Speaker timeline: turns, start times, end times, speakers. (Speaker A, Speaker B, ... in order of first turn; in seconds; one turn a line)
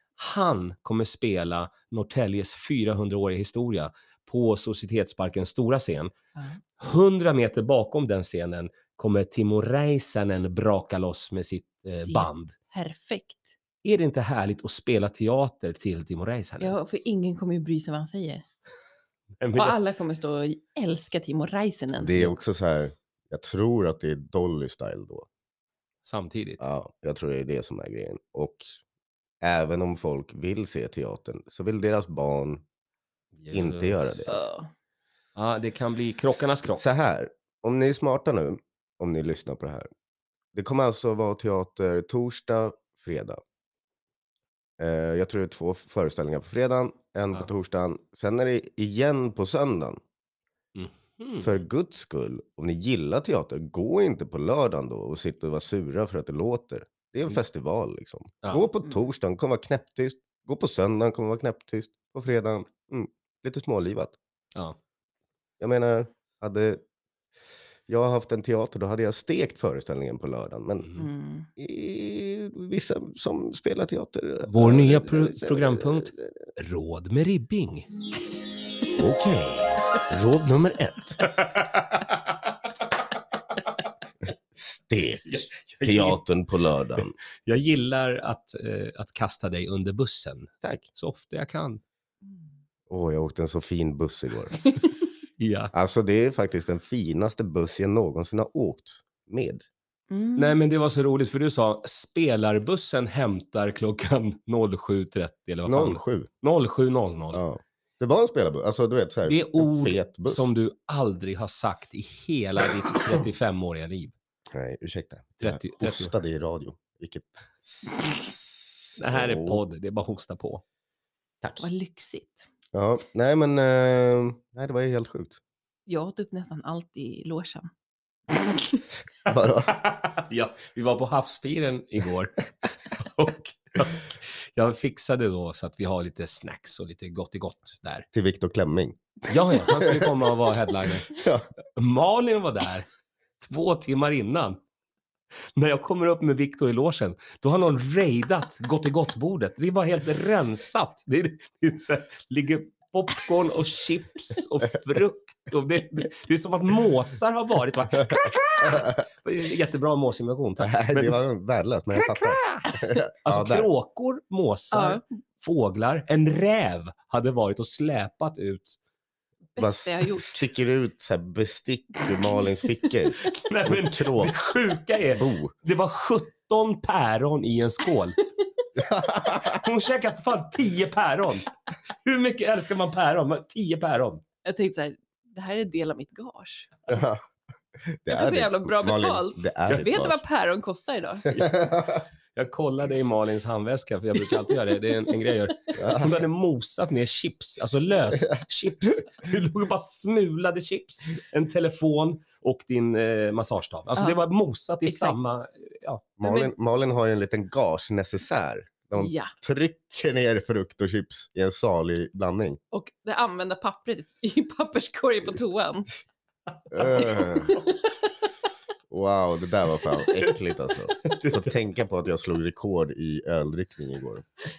Speaker A: 0.2-6.1
Speaker A: 6.8-12.5
Speaker B: 12.1-13.5
Speaker A: 13.8-16.8
Speaker B: 16.6-18.4
Speaker A: 19.4-19.8
Speaker B: 19.5-22.4
Speaker C: 21.9-25.3
Speaker A: 26.0-26.7
Speaker C: 26.6-28.8
Speaker C: 29.4-32.6
Speaker A: 33.3-34.3
Speaker C: 33.5-34.3
Speaker B: 34.3-34.7
Speaker A: 35.4-36.8
Speaker C: 36.7-39.9
Speaker C: 40.5-43.4
Speaker C: 44.8-50.0
Speaker A: 50.7-51.6
Speaker C: 51.4-64.2
Speaker C: 65.6-66.8
Speaker C: 67.9-70.9
Speaker A: 70.8-71.0
Speaker B: 71.0-71.5
Speaker C: 71.6-76.4
Speaker A: 74.5-77.9
Speaker C: 79.0-81.2
Speaker A: 81.2-82.5
Speaker C: 84.5-87.1
Speaker A: 85.2-86.2
Speaker A: 87.0-91.8
Speaker C: 92.9-94.6
Speaker A: 95.4-95.7
Speaker C: 95.7-99.7
Speaker B: 100.1-100.6
Speaker A: 100.3-107.4
Speaker C: 105.7-106.3
Speaker C: 107.3-110.5
Speaker A: 109.2-114.1
Speaker C: 114.5-119.6
Speaker A: 115.4-116.1
Speaker A: 119.0-120.6
Speaker B: 121.6-122.5
Speaker C: 122.7-125.4
Speaker B: 125.9-127.7
Speaker C: 129.3-129.7
Speaker A: 129.7-138.1
Speaker C: 138.1-140.1
Speaker A: 139.3-141.1
Speaker C: 141.1-141.5
Speaker A: 141.8-142.8
Speaker A: 143.4-144.6
Speaker A: 145.5-161.2
Speaker C: 160.6-163.7
Speaker A: 161.9-168.8
Speaker B: 164.7-165.0
Speaker B: 169.5-170.5
Speaker C: 169.6-174.4
Speaker A: 173.2-178.2
Speaker C: 175.1-175.5
Speaker C: 178.8-179.6
Speaker A: 179.2-184.2
Speaker B: 184.4-186.7
Speaker C: 186.9-187.2
Speaker C: 187.8-190.2
Speaker B: 188.1-191.3
Speaker C: 191.3-192.0
Speaker A: 192.3-206.0
Speaker C: 195.8-196.2
Speaker B: 203.9-204.2
Speaker B: 204.8-205.2
Speaker C: 206.2-212.6
Speaker B: 206.2-206.5
Speaker B: 208.9-209.3
Speaker B: 212.7-216.0
Speaker C: 216.7-217.6
Speaker B: 216.8-217.9
Speaker C: 218.9-224.3
Speaker A: 221.0-221.5